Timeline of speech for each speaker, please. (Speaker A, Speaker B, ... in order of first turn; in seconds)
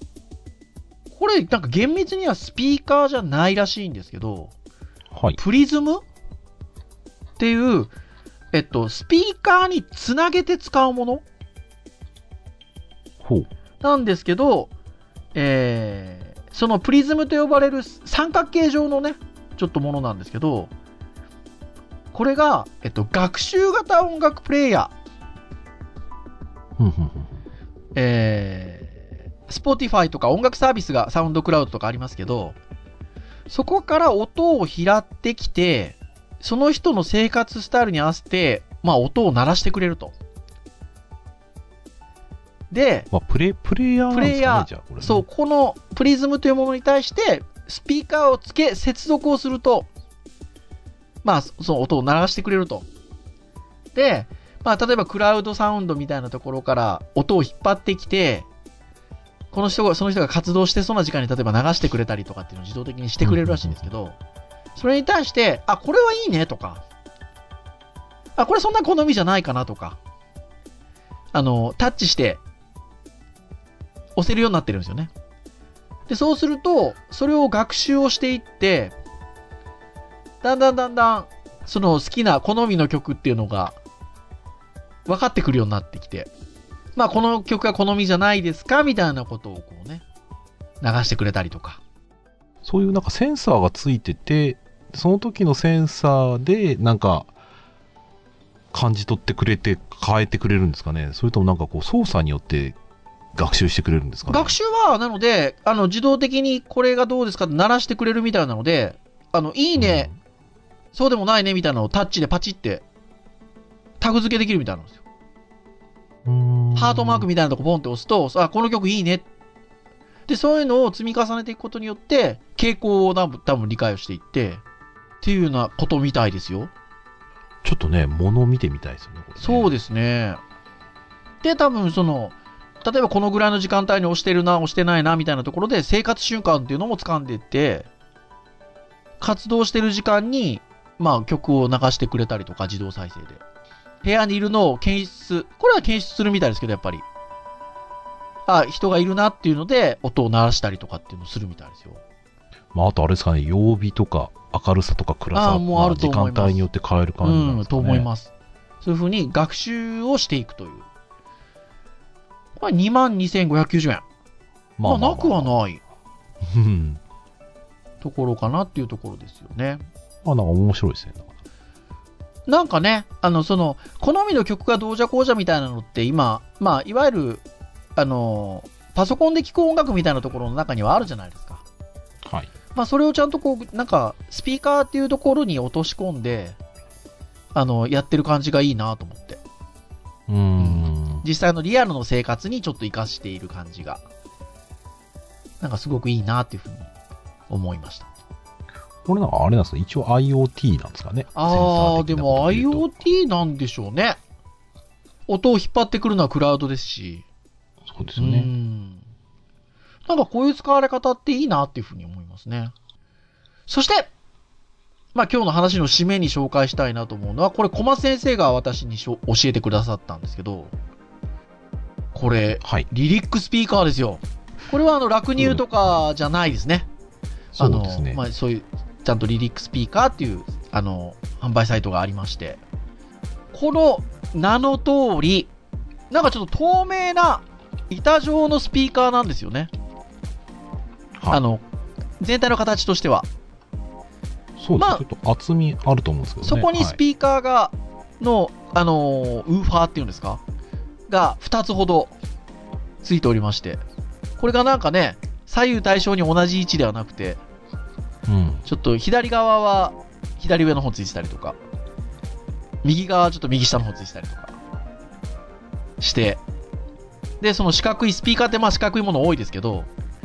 Speaker A: 1.1-4.5, 5.4-6.0, 7.4-7.9, 8.5-11.2, 13.8-14.7, 15.3-20.7, 22.1-24.9, 27.9-32.6, 33.5-40.1, 42.7-43.1, 44.1-49.9, 51.2-52.9, 54.0-58.5, 59.5-64.2, 64.8-66.8, 68.4-70.0, 71.3-72.4, 74.2-75.1, 76.1-79.0, 80.4-83.8, 85.1-86.3, 87.0-90.0, 90.8-91.8, 104.3-110.1, 110.9-112.8, 114.0-115.0, 116.8-119.3, 120.3-124.6, 125.2-126.7, 129.4-130.4, 131.4-137.9, 139.2-143.4, 144.0-147.1, 148.5-152.0, 155.3-156.6, 157.2-160.9, 162.6-164.0, 164.8-165.8, 168.0-169.9, 172.5-177.4, 178.0-181.6, 182.7-186.6, 187.5-189.4, 190.6-194.0, 195.6-196.9, 197.5-198.1, 201.3-204.2, 205.3-207.2, 208.2-209.0, 210.1-212.7, 213.7-214.1, 215.2-220.7, 222.1-226.9, 227.6-232.6, 233.5-235.5, 236.1-239.7, 241.3-241.6, 242.2-243.3, 244.8-245.0, 246.4-250.4, 251.1-252.1, 253.0-253.8, 254.4-257.4, 258.7-261.6, 262.8-264.6, 266.0-266.4, 267.4-269.9
Speaker B: 5.1-5.4, 13.2-13.5, 26.8-27.4, 43.1-45.3, 63.2-63.9, 92.6-97.3, 98.7-102.8, 103.3-104.6, 109.8-110.1, 116.2-117.3, 127.6-129.8, 152.7-158.1, 164.8-165.5, 166.4-167.0, 170.2-171.3, 182.2-182.5, 190.3-191.2, 199.1-203.1, 207.9-208.5, 222.6-222.9, 225.4-225.9, 227.5-228.2, 244.6-247.0, 258.3-258.6